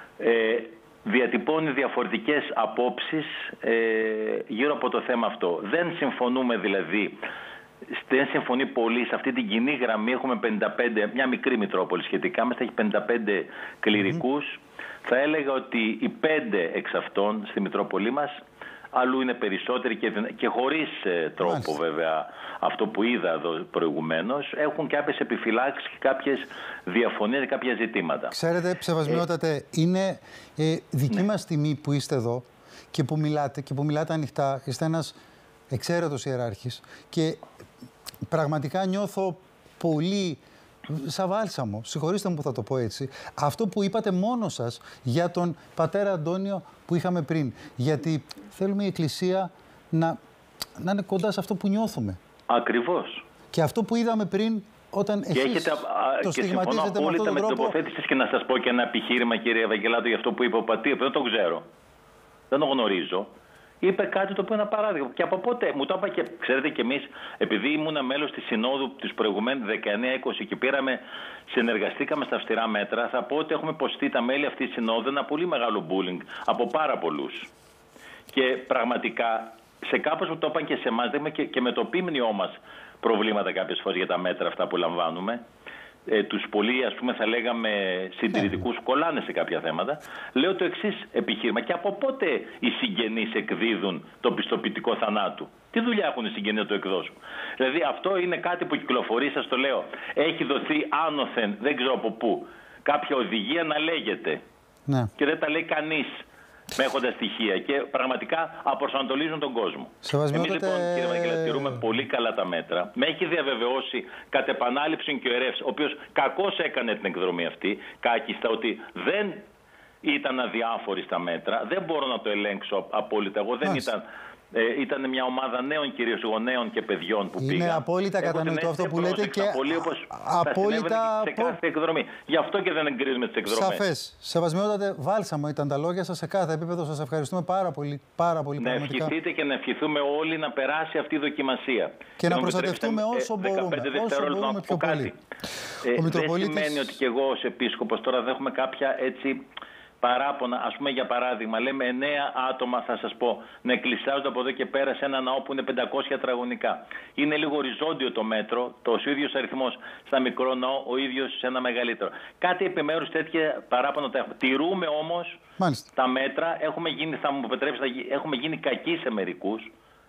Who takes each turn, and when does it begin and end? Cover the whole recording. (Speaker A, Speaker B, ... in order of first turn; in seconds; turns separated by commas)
Speaker A: 0.2-7.2, Speaker A: 7.9-18.3, Speaker A: 18.9-28.3, Speaker B: 21.4-21.7, Speaker B: 28.3-35.1, Speaker B: 35.7-37.4, Speaker B: 38.3-50.2, Speaker B: 50.8-52.2, Speaker A: 52.5-53.2, Speaker B: 53.5-57.7, Speaker A: 55.3-61.6, Speaker A: 62.5-63.3, Speaker A: 63.8-77.5, Speaker A: 78.3-85.4, Speaker A: 86.1-104.4, Speaker A: 105.2-119.4, Speaker B: 110.0-111.8, Speaker A: 120.0-133.8, Speaker B: 123.6-123.9, Speaker B: 127.4-131.6, Speaker B: 133.5-139.1, Speaker A: 138.6-145.2, Speaker B: 142.2-145.1, Speaker A: 145.8-149.4, Speaker B: 145.9-146.8, Speaker A: 150.0-165.4, Speaker B: 165.6-165.9, Speaker A: 165.9-169.7